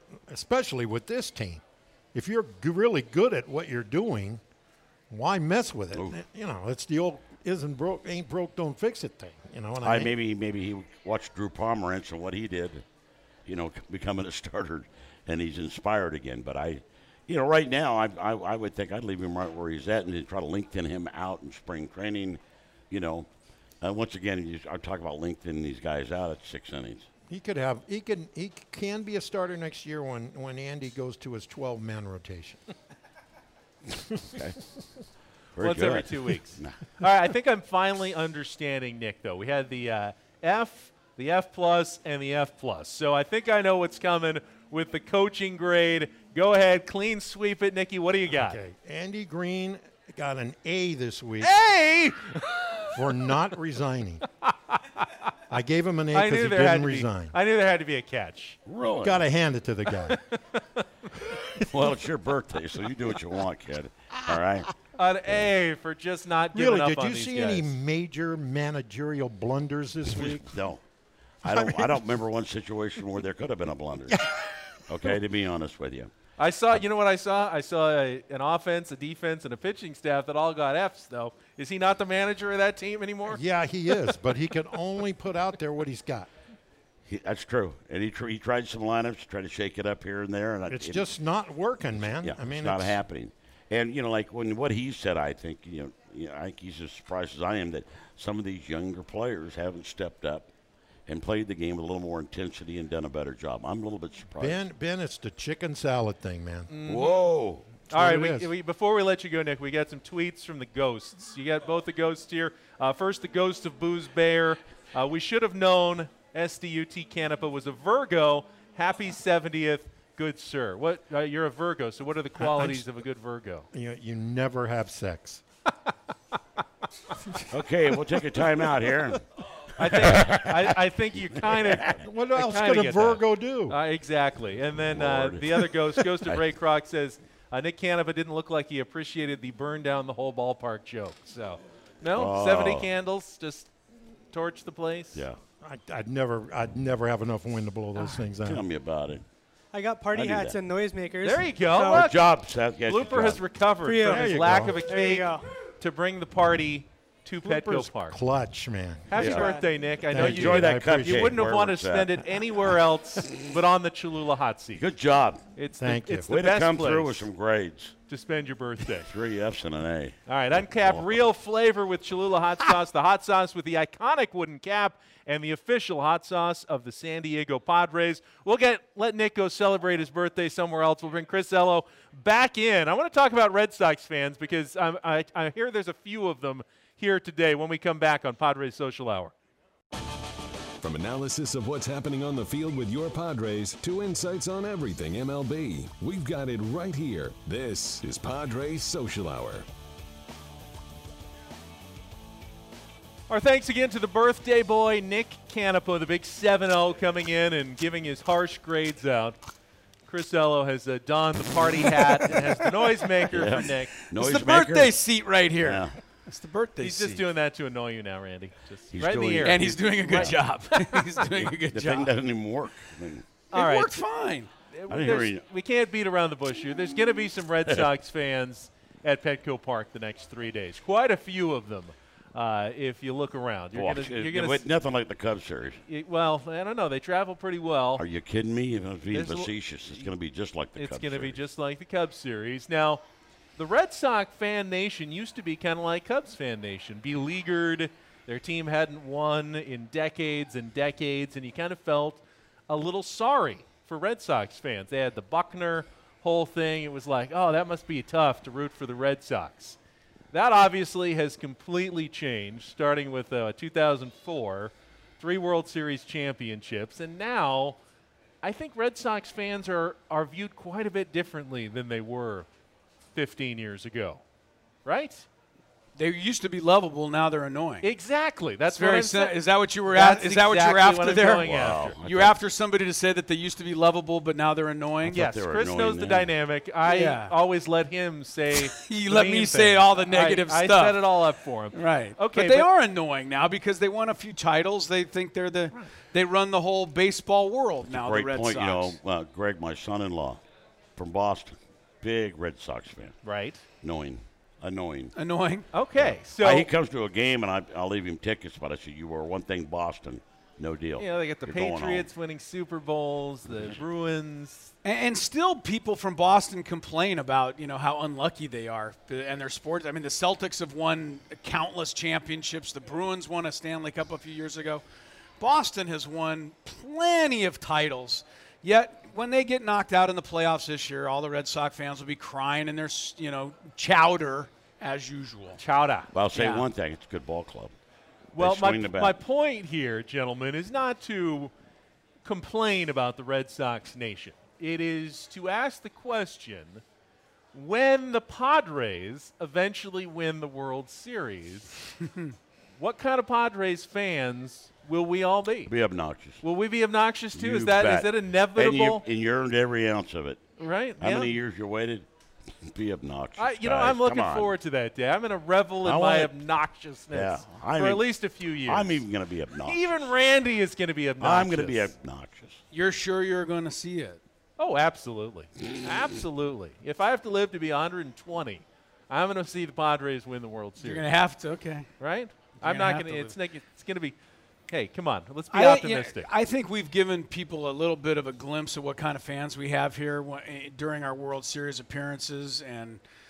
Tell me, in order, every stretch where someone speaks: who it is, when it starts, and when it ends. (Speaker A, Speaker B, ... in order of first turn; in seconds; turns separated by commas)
Speaker A: 0.3-1.6, Speaker A: 2.1-4.4, Speaker A: 5.1-10.1, Speaker B: 9.8-12.8, Speaker B: 13.4-23.3, Speaker B: 23.8-27.1, Speaker A: 27.3-32.6, Speaker B: 35.5-36.8, Speaker C: 35.6-48.6, Speaker A: 48.3-51.5, Speaker C: 51.4-53.0, Speaker A: 52.9-54.2, Speaker C: 54.5-55.1, Speaker A: 55.5-57.3, Speaker C: 56.1-58.6, Speaker B: 58.6-59.2, Speaker A: 59.0-60.2, Speaker C: 60.1-60.8, Speaker B: 61.6-64.7, Speaker C: 65.0-67.7, Speaker A: 66.5-70.6, Speaker B: 70.1-70.8, Speaker B: 71.4-74.3, Speaker A: 71.5-71.9, Speaker A: 74.1-74.6, Speaker B: 74.9-76.1, Speaker C: 76.4-83.4, Speaker A: 83.3-86.3, Speaker B: 87.0-91.1, Speaker A: 90.7-93.0, Speaker B: 92.0-100.5, Speaker B: 101.1-104.7, Speaker A: 104.4-106.7, Speaker C: 106.7-107.3, Speaker B: 106.9-107.7, Speaker A: 107.9-108.5, Speaker C: 107.9-123.7, Speaker A: 122.4-122.9, Speaker A: 123.7-125.4, Speaker B: 127.5-129.2, Speaker C: 129.8-143.7, Speaker B: 129.8-130.8, Speaker B: 131.3-132.0, Speaker A: 132.0-133.8, Speaker B: 134.7-135.7, Speaker B: 142.1-142.9, Speaker C: 144.3-145.2, Speaker B: 145.1-145.4, Speaker A: 145.6-148.6, Speaker B: 148.4-149.2, Speaker D: 149.7-152.1, Speaker B: 150.1-150.6, Speaker C: 151.2-152.2, Speaker B: 151.8-153.4, Speaker C: 152.8-158.2, Speaker D: 153.8-155.4, Speaker A: 154.0-154.8, Speaker A: 157.4-159.5, Speaker C: 159.1-164.8, Speaker B: 159.1-159.5, Speaker D: 159.3-159.6, Speaker A: 160.1-161.3, Speaker B: 160.1-162.2, Speaker B: 164.8-165.4, Speaker C: 165.6-167.2, Speaker A: 165.8-166.3, Speaker B: 166.3-167.9, Speaker C: 168.1-169.1, Speaker B: 169.0-171.2, Speaker C: 170.3-189.3, Speaker E: 190.8-199.7, Speaker C: 203.3-209.4, Speaker C: 210.1-213.9, Speaker B: 213.3-215.0, Speaker F: 214.1-217.2, Speaker B: 215.6-215.9, Speaker C: 216.8-221.0, Speaker B: 218.9-220.4, Speaker F: 219.4-222.1, Speaker B: 221.3-223.3, Speaker C: 223.5-223.9, Speaker F: 223.5-224.5, Speaker C: 224.7-234.6, Speaker B: 224.9-225.4, Speaker B: 233.7-235.8, Speaker C: 235.9-238.0, Speaker B: 238.0-241.4, Speaker C: 239.1-239.5, Speaker C: 240.8-243.0, Speaker C: 243.6-259.8, Speaker C: 260.3-267.8, Speaker C: 268.4-272.5, Speaker C: 273.1-274.2, Speaker C: 274.8-275.3, Speaker F: 275.9-277.9, Speaker C: 277.8-282.0, Speaker F: 278.7-285.2, Speaker B: 281.4-282.4, Speaker B: 285.0-286.3, Speaker C: 285.1-292.7, Speaker F: 286.9-287.3, Speaker F: 288.5-291.1, Speaker F: 291.7-298.9, Speaker B: 297.8-300.4, Speaker B: 300.9-303.2, Speaker C: 303.2-303.6, Speaker B: 303.8-305.1, Speaker F: 305.1-305.7, Speaker C: 305.7-306.7, Speaker B: 305.9-312.1, Speaker C: 311.0-314.7, Speaker F: 314.8-324.8, Speaker F: 325.4-335.6, Speaker C: 335.6-336.1, Speaker B: 336.1-337.7, Speaker F: 336.3-336.7, Speaker C: 338.3-341.5, Speaker B: 338.4-339.2, Speaker C: 342.2-346.8, Speaker C: 347.5-351.8, Speaker C: 352.8-355.7, Speaker B: 355.6-356.4, Speaker C: 356.4-359.0, Speaker B: 357.3-360.4, Speaker C: 360.6-361.3, Speaker B: 361.0-364.5, Speaker C: 363.4-369.0, Speaker B: 365.8-366.3, Speaker B: 367.1-368.1, Speaker B: 368.6-370.0, Speaker C: 369.6-371.9, Speaker B: 371.2-372.6, Speaker F: 372.7-374.2, Speaker C: 374.6-381.1, Speaker F: 380.8-381.9, Speaker C: 382.0-384.1, Speaker F: 382.6-383.3, Speaker C: 384.7-386.3, Speaker F: 385.5-393.0